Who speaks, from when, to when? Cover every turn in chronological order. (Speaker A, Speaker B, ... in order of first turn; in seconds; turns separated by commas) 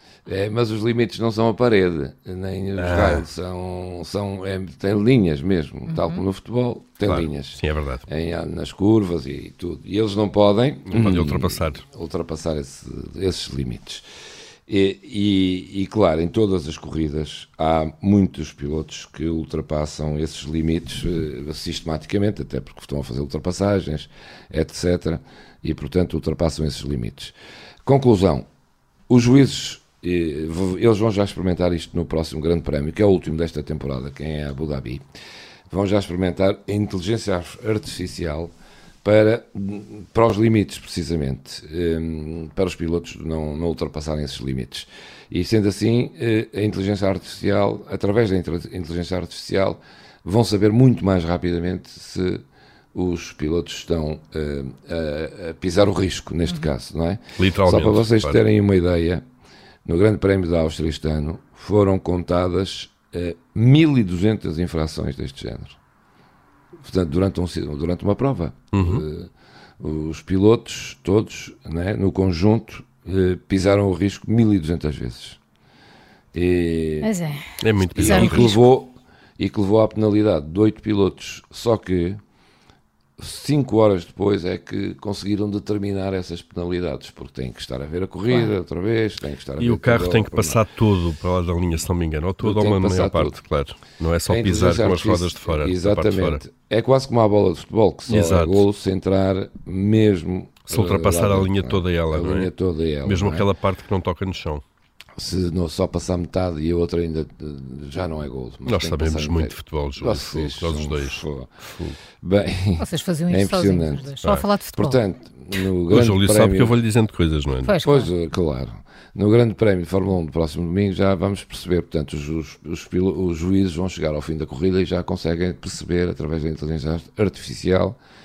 Speaker A: 0.3-14.0, Speaker B: 2.8-3.2, Speaker C: 5.9-6.2, Speaker B: 7.1-8.1, Speaker B: 10.9-11.8, Speaker A: 14.7-28.5, Speaker A: 29.1-35.0, Speaker A: 35.7-38.5, Speaker A: 39.0-52.4, Speaker A: 52.9-59.2, Speaker B: 57.4-58.4, Speaker A: 59.9-65.8, Speaker A: 66.8-75.4, Speaker B: 68.7-69.0, Speaker A: 76.3-77.1, Speaker C: 77.0-77.4, Speaker B: 77.6-78.5, Speaker C: 77.9-78.7, Speaker A: 78.0-82.2, Speaker A: 83.2-90.6, Speaker B: 89.6-96.4, Speaker A: 92.4-93.4, Speaker A: 94.3-103.5, Speaker B: 98.1-98.6, Speaker B: 100.7-102.5, Speaker B: 103.0-104.6, Speaker A: 105.2-111.6, Speaker B: 108.7-112.0, Speaker A: 112.2-114.2, Speaker C: 112.8-115.0, Speaker A: 114.7-116.8, Speaker B: 115.9-117.8, Speaker C: 117.6-118.1, Speaker A: 117.8-128.0